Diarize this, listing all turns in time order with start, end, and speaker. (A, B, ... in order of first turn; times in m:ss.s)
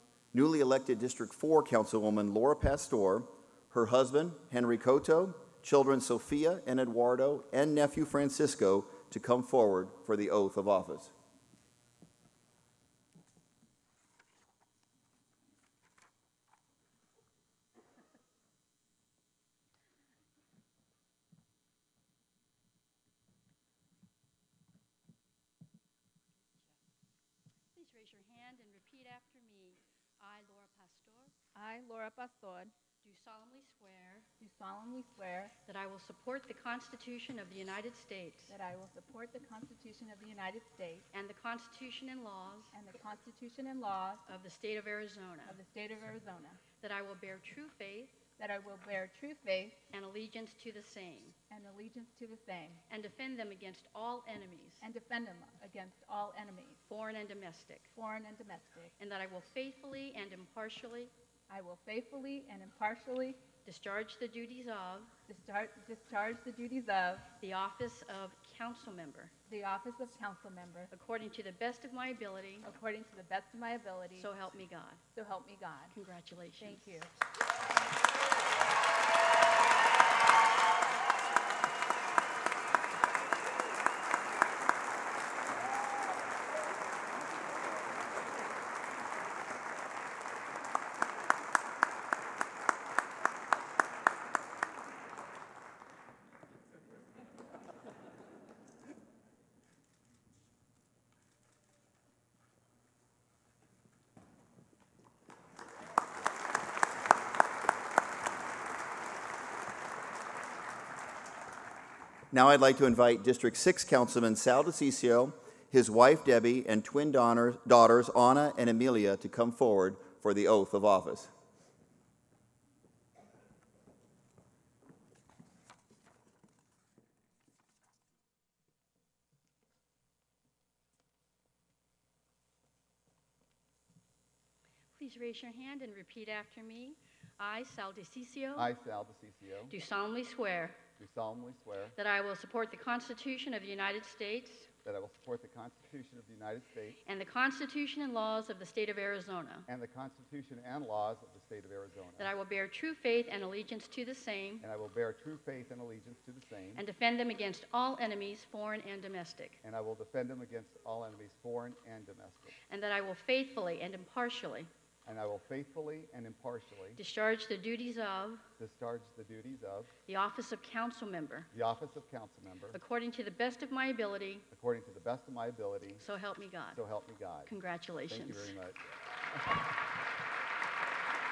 0:00.3-0:11.1 A
0:27.7-0:31.3 B
0:31.5-0:32.7 C
0:33.0-0:34.3 B
0:34.4-0:35.5 C
0:35.6-0:38.5 B
0:38.5-0:41.0 C
0:41.1-0:42.7 B
0:42.7-0:44.2 C
0:44.2-0:45.6 B
0:45.4-0:46.6 C
0:46.8-0:48.2 B
0:48.4-0:49.8 C
0:49.9-0:51.3 B
0:51.5-0:52.8 C
0:52.9-0:54.8 B
0:54.8-0:56.8 C
0:56.8-0:57.9 B
0:57.9-0:58.9 C
0:59.0-1:01.1 B
1:01.5-1:03.4 C
1:03.6-1:05.1 B
1:05.3-1:07.3 C
1:07.4-1:09.3 B
1:09.5-1:10.9 C
1:10.9-1:12.7 B
1:12.6-1:14.3 C
1:14.2-1:15.0 B
1:15.1-1:15.9 C
1:15.9-1:17.0 B
1:16.6-1:17.1 C
1:52.3-2:01.3 A
2:14.9-2:18.7 B
2:18.6-2:19.7 D
2:19.7-2:20.8 B
2:21.0-2:22.0 D
2:21.9-2:24.7 B
2:24.8-2:27.0 D
2:27.0-2:29.7 B
2:29.7-2:32.3 D
2:32.2-2:34.6 B
2:34.6-2:36.8 D
2:36.7-2:39.6 B
2:39.6-2:42.5 D
2:42.7-2:44.7 B
2:45.0-2:47.0 D
2:47.0-2:48.4 B
2:48.6-2:49.9 D
2:50.1-2:51.5 B
2:51.5-2:52.8 D
2:52.7-2:54.4 B
2:54.5-2:56.0 D
2:56.0-2:56.8 B
2:56.7-2:57.5 D
2:57.4-2:58.6 B
2:58.1-2:59.5 D